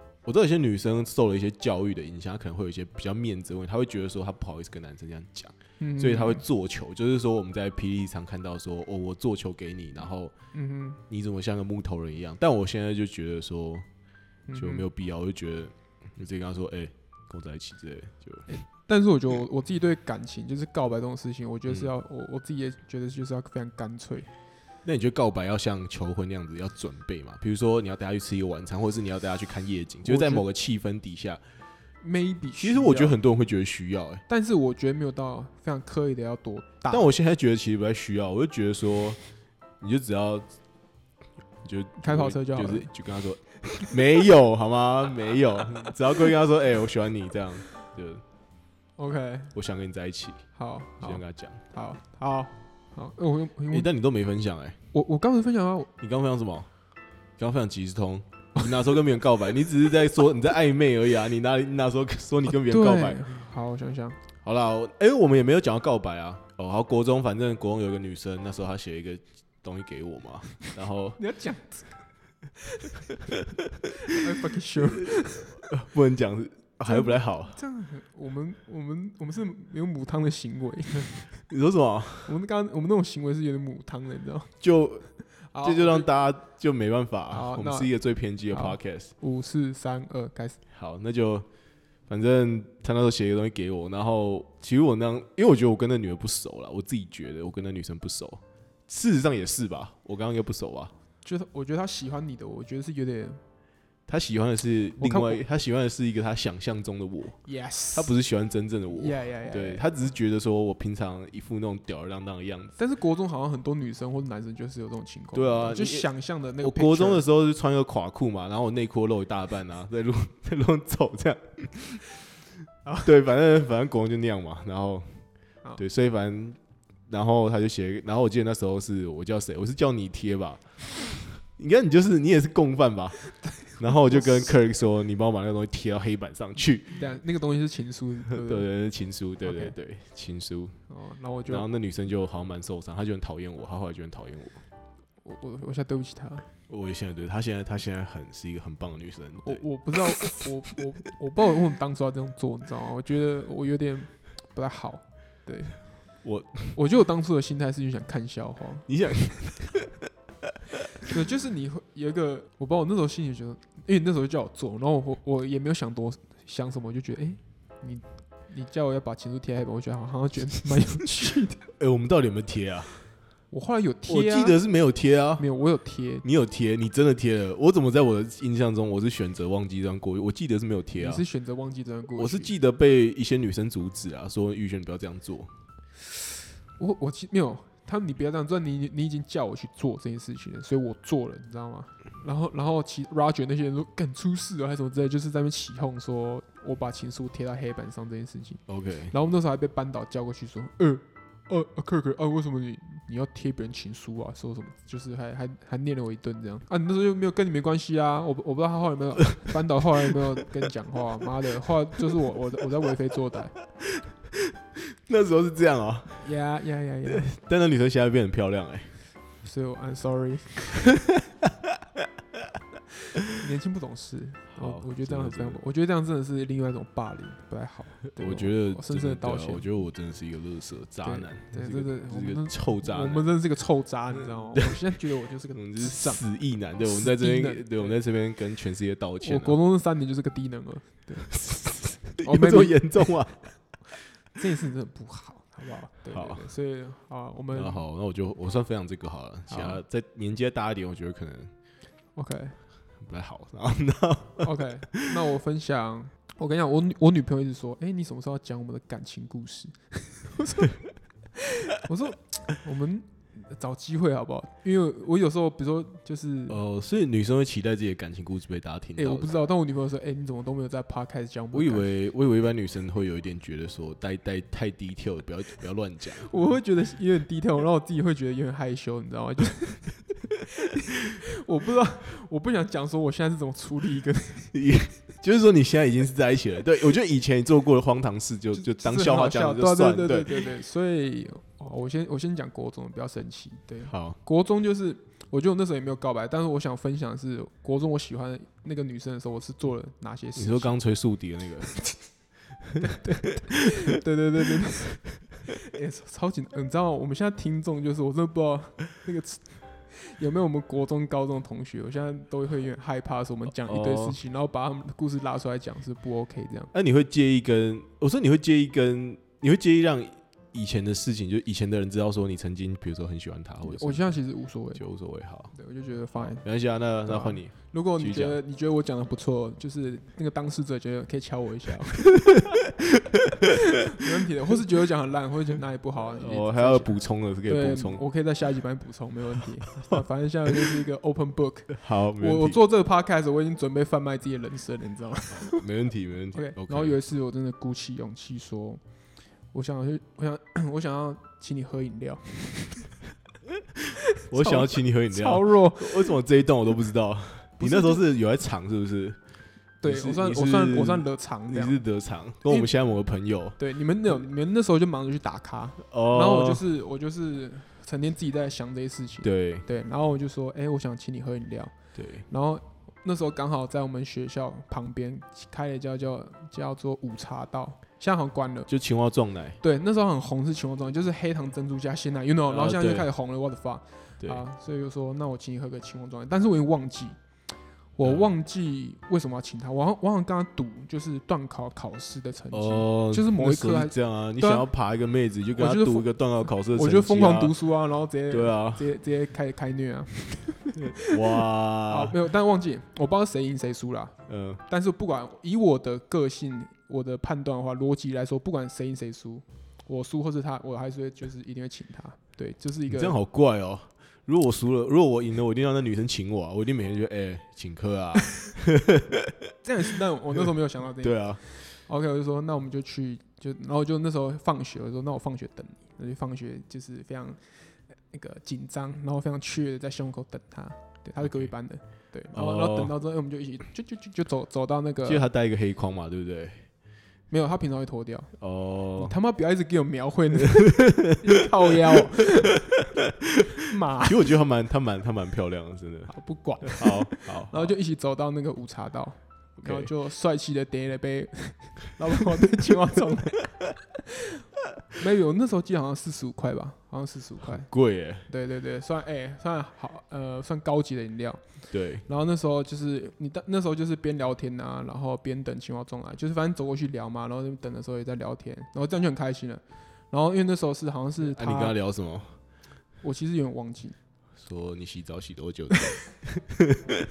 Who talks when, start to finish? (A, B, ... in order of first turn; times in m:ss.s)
0:00.2-0:10.3 A
0:05.8-0:06.4 B
0:10.5-0:11.0 B
0:11.1-0:13.9 A
0:14.5-0:14.9 B
0:14.5-0:18.5 A
0:18.5-0:24.3 B
0:24.8-0:31.4 A
0:30.0-0:30.5 B
0:32.0-0:33.2 B
0:32.6-0:34.2 A
0:34.3-0:37.1 B
0:36.9-0:39.2 A
0:39.8-0:40.5 A
0:41.6-0:48.2 A
0:42.0-0:42.9 B
0:49.0-0:49.5 B
0:49.5-0:51.6 A
0:50.6-0:53.9 B
0:53.7-0:54.8 A
0:54.9-0:55.9 B
0:56.0-0:56.7 A
0:57.4-1:03.2 A
1:02.5-1:04.2 B
1:04.4-1:11.2 A
1:11.2-1:12.0 B
1:14.1-1:15.6 B
1:14.9-1:17.6 A
1:16.8-1:21.3 B
1:21.5-1:22.4 A
1:22.2-1:24.5 B
1:24.6-1:29.1 A
1:25.5-1:26.1 B
1:27.3-1:27.9 B
1:28.5-1:30.6 B
1:30.7-1:31.5 A
1:32.1-1:40.9 A
1:41.2-1:43.4 B
1:44.1-1:52.8 A
1:45.0-1:45.4 B
1:47.4-1:48.1 B
1:48.9-1:49.9 B
1:52.8-1:57.2 B
1:55.3-2:02.0 A
2:03.0-2:05.2 A
2:05.8-2:17.0 A
2:13.6-2:14.5 B
2:16.9-2:18.7 B
2:18.3-2:20.8 A
2:19.4-2:19.8 B
2:20.9-2:21.7 B
2:21.5-2:24.6 A
2:25.2-2:26.5 B
2:26.7-2:29.7 A
2:29.4-2:35.9 B
2:36.2-2:36.8 A
2:36.7-2:38.9 B
2:38.9-2:39.9 A
2:41.0-2:51.6 B
2:51.8-2:53.0 A
2:53.5-2:54.6 B
2:54.1-2:55.5 A
2:55.4-2:56.2 B
2:56.2-3:01.2 A
3:01.0-3:02.5 B
3:02.2-3:05.6 A
3:06.8-3:33.6 B
3:18.7-3:19.1 A
3:34.0-3:36.3 A
3:36.2-3:37.3 B
3:37.1-3:39.0 A
3:39.4-3:40.9 B
3:43.3-3:49.7 B
3:44.5-3:45.6 A
3:48.2-3:53.3 A
3:51.0-3:56.2 B
3:54.6-3:54.8 A
3:55.5-3:59.6 A
3:56.8-3:58.0 B
3:59.2-4:01.5 B
4:01.3-4:03.5 A
4:02.2-4:02.9 B
4:04.3-4:07.8 B
4:06.1-4:06.5 A
4:07.5-4:11.5 A
4:09.5-4:09.8 B
4:12.2-4:12.6 B
4:13.0-4:14.6 A
4:14.4-4:20.8 B
4:21.7-4:26.6 B
4:26.5-4:29.3 A
4:29.0-4:31.9 B
4:31.5-4:36.3 A
4:36.2-4:40.1 B
4:41.2-4:44.5 B
4:44.5-4:50.4 A
4:48.6-5:00.8 B
4:53.9-4:54.2 A
5:00.4-5:02.2 A
5:02.9-5:16.7 B
5:13.6-5:14.2 A
5:16.7-5:24.1 A
5:23.6-5:24.8 B
5:24.8-5:25.6 A
5:25.5-5:26.5 B
5:26.2-5:28.4 A
5:27.0-5:32.3 B
5:33.9-5:45.6 B
5:36.2-5:38.0 A
5:41.7-5:42.6 A
5:45.3-5:47.0 A
5:46.3-5:48.8 B
5:49.5-5:53.0 B
5:54.3-5:56.2 B
5:54.3-5:59.2 A
5:57.6-5:58.0 B
5:59.8-6:01.8 B
5:59.8-6:03.6 A
6:02.4-6:02.7 B
6:03.6-6:11.8 B
6:05.9-6:06.6 A
6:09.2-6:09.7 A
6:12.0-6:12.3 A
6:12.3-6:18.7 B
6:18.7-6:19.6 A
6:19.6-6:34.7 B
6:22.5-6:23.1 A
6:28.0-6:28.3 A
6:32.5-6:37.6 A
6:35.6-6:40.8 B
6:38.3-6:38.9 A
6:40.8-6:42.2 A
6:41.9-6:53.2 B
6:44.3-6:44.6 A
6:52.9-6:59.3 A
6:59.6-7:15.3 B
7:01.0-7:01.4 A
7:11.2-7:11.5 A
7:12.3-7:13.0 A
7:15.0-7:16.7 A
7:17.3-7:22.6 B
7:18.4-7:19.2 A
7:20.7-7:21.0 A
7:23.7-7:24.2 B
7:24.0-7:27.7 A
7:26.1-7:33.6 B
7:29.6-7:29.9 A
7:35.0-7:51.8 B
7:37.4-7:38.3 A
7:41.7-7:42.1 A
7:51.2-7:52.4 A
7:53.0-7:54.0 B
7:54.4-7:56.8 A